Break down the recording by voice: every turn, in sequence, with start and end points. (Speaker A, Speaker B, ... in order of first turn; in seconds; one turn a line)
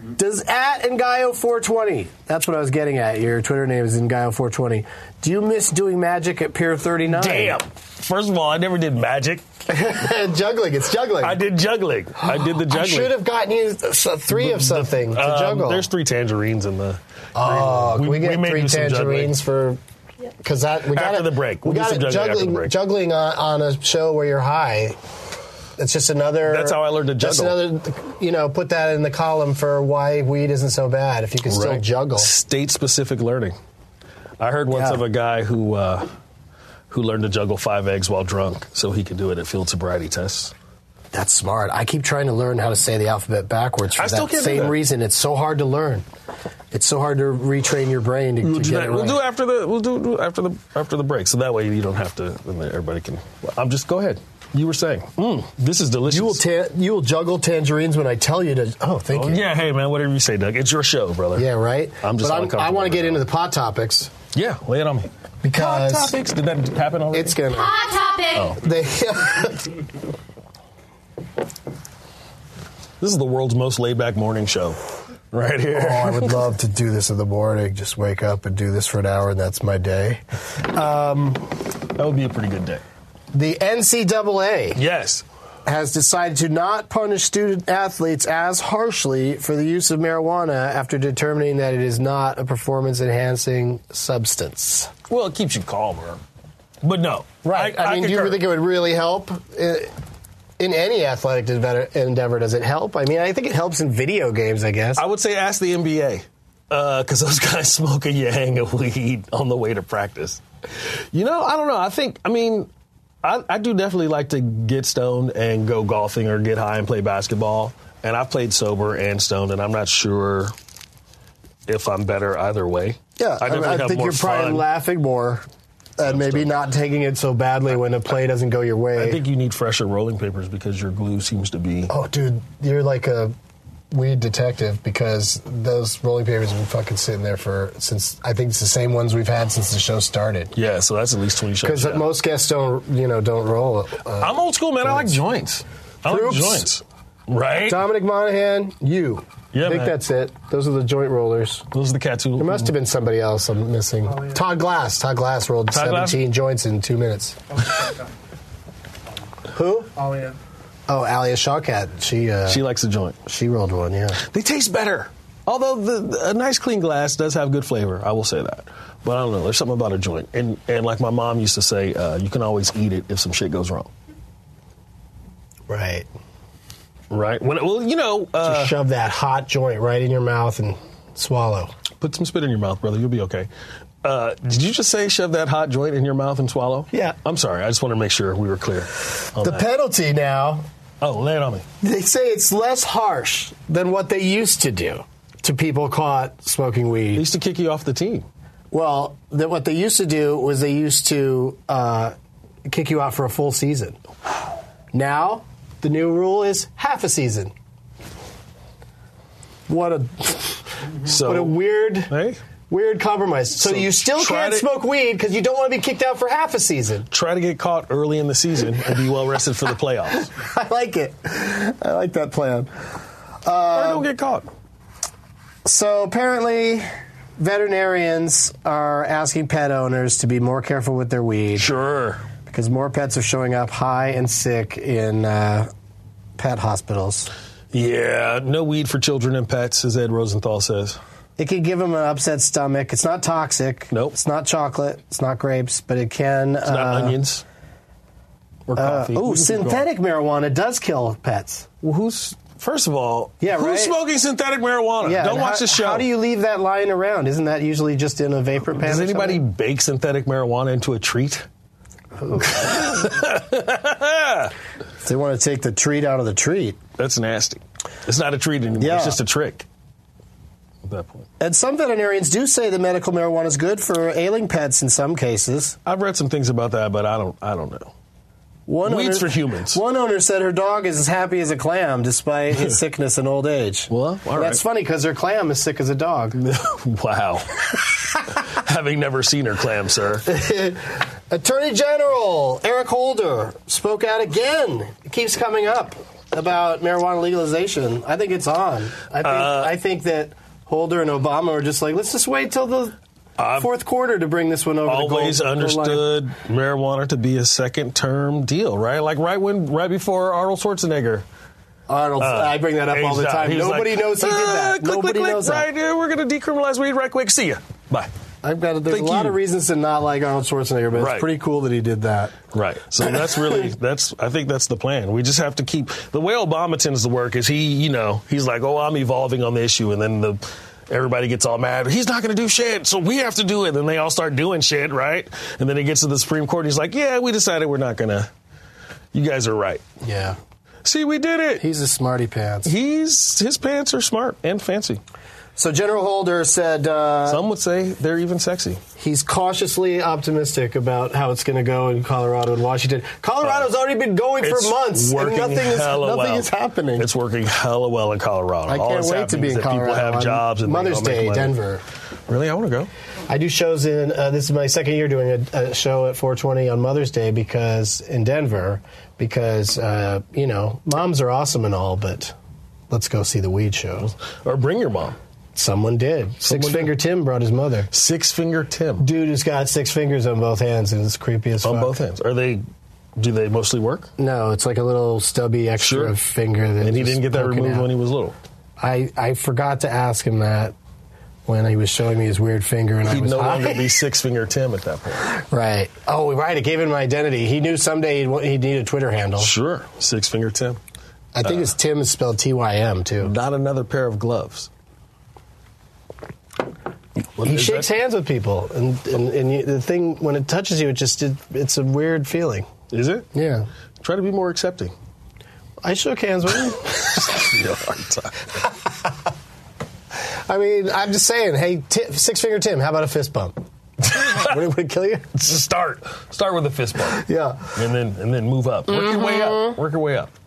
Speaker A: 0.2-7.6
Speaker B: 7.1-9.4
Speaker A: 9.7-11.4
Speaker B: 11.2-13.1
Speaker A: 12.2-15.9
Speaker B: 14.3-19.3
Speaker A: 17.3-19.8
Speaker A: 20.4-25.0
Speaker B: 20.9-22.7
Speaker A: 25.8-32.3
Speaker B: 26.4-27.6
Speaker B: 31.5-33.5
Speaker B: 34.4-36.1
Speaker A: 34.7-35.0
Speaker B: 36.9-40.5
Speaker A: 41.1-46.0
Speaker B: 44.0-44.8
Speaker A: 46.7-49.2
Speaker B: 48.4-56.4
Speaker A: 56.1-59.4
Speaker B: 59.1-61.5
Speaker A: 61.3-64.1
Speaker B: 62.0-63.2
Speaker B: 64.3-67.4
Speaker A: 65.4-66.1
Speaker A: 67.1-69.7
Speaker B: 68.3-68.6
Speaker B: 73.0-74.8
Speaker B: 75.3-76.5
Speaker A: 75.7-81.4
Speaker B: 82.0-82.8
Speaker A: 83.3-84.8
Speaker B: 84.8-85.2
Speaker A: 85.7-94.9
Speaker B: 95.1-96.2
Speaker B: 96.8-98.4
Speaker A: 97.4-99.9
Speaker A: 100.6-105.0
Speaker B: 105.0-110.4
Speaker B: 111.1-112.7
Speaker B: 113.2-120.5
Speaker B: 121.7-124.6
Speaker A: 123.2-125.4
Speaker A: 126.0-129.2
Speaker B: 126.0-126.5
Speaker B: 128.9-131.9
Speaker A: 131.9-133.3
Speaker A: 133.9-140.5
Speaker B: 140.5-142.0
Speaker A: 141.6-145.2
Speaker B: 144.2-147.8
Speaker A: 146.1-146.7
Speaker A: 147.7-151.7
Speaker B: 149.5-149.9
Speaker B: 151.7-152.7
Speaker A: 152.4-157.4
Speaker B: 155.7-156.2
Speaker A: 159.5-160.1
Speaker A: 160.9-162.6
Speaker B: 162.5-163.2
Speaker A: 163.3-164.2
Speaker B: 164.2-173.9
Speaker A: 175.7-176.1
Speaker B: 177.1-178.7
Speaker A: 178.4-181.7
Speaker B: 182.0-183.5
Speaker B: 184.0-189.7
Speaker A: 189.4-190.6
Speaker B: 191.0-191.6
Speaker A: 191.8-197.2
Speaker B: 197.1-198.2
Speaker A: 198.7-202.1
Speaker A: 202.7-204.0
Speaker A: 204.9-207.5
Speaker A: 209.7-212.1
Speaker B: 211.1-211.6
Speaker B: 212.1-212.4
Speaker A: 212.7-217.1
Speaker B: 213.6-214.7
Speaker B: 217.1-220.3
Speaker A: 220.3-222.7
Speaker A: 223.4-224.1
Speaker B: 223.7-224.5
Speaker A: 225.6-226.9
Speaker A: 227.4-231.7
Speaker B: 231.6-232.2
Speaker A: 232.4-235.7
Speaker A: 236.4-237.3
Speaker B: 237.7-241.0
Speaker A: 241.4-247.2
Speaker B: 246.7-247.4
Speaker B: 248.7-249.9
Speaker A: 248.8-251.7
Speaker B: 251.8-256.1
Speaker A: 253.4-253.9
Speaker A: 255.0-259.4
Speaker B: 258.7-261.4
Speaker A: 262.2-262.7
Speaker B: 262.4-264.5
Speaker A: 265.0-266.8
Speaker B: 267.0-269.6
Speaker A: 268.8-269.2
Speaker B: 270.9-271.3
Speaker A: 271.4-275.8
Speaker B: 275.9-277.9
Speaker A: 278.7-286.4
Speaker B: 278.8-279.8
Speaker B: 283.9-284.6
Speaker B: 286.4-287.8
Speaker B: 288.4-290.2
Speaker A: 290.2-302.9
Speaker B: 299.2-299.7
Speaker B: 303.4-303.7
Speaker A: 303.6-306.1
Speaker B: 304.9-311.2
Speaker A: 311.9-315.7
Speaker B: 312.2-318.1
Speaker A: 318.4-322.4
Speaker B: 318.9-319.4
Speaker B: 320.9-321.3
Speaker B: 322.5-338.3
Speaker B: 339.1-339.8
Speaker A: 340.0-340.4
Speaker B: 340.8-341.6
Speaker A: 341.6-342.7
Speaker B: 342.6-345.0
Speaker A: 345.6-347.4
Speaker B: 347.3-348.8
Speaker A: 349.0-357.1
Speaker B: 353.4-353.7
Speaker B: 354.4-361.5
Speaker A: 358.7-361.8
Speaker B: 362.3-362.9
Speaker A: 363.3-372.3
Speaker A: 372.9-374.1
Speaker B: 374.4-375.2
Speaker A: 375.5-377.9
Speaker B: 376.4-376.9
Speaker B: 377.9-379.1
Speaker A: 379.0-381.9
Speaker B: 381.6-382.6
Speaker B: 383.1-384.1
Speaker A: 384.2-387.9
Speaker B: 385.8-386.1
Speaker B: 386.8-388.4
Speaker A: 388.8-390.7
Speaker A: 391.5-393.9
Speaker B: 393.1-395.3
Speaker A: 395.4-399.5
Speaker B: 399.4-400.8
Speaker A: 401.3-403.3
Speaker B: 403.2-404.7
Speaker B: 407.4-407.9
Speaker A: 407.4-412.7
Speaker B: 412.9-413.3
Speaker A: 413.3-413.7
Speaker B: 414.0-414.9
Speaker A: 415.8-417.2
Speaker B: 417.1-418.5
Speaker A: 420.5-423.6
Speaker B: 424.1-424.5
Speaker A: 424.1-425.3
Speaker B: 425.3-430.3
Speaker A: 427.1-427.8
Speaker A: 428.9-429.8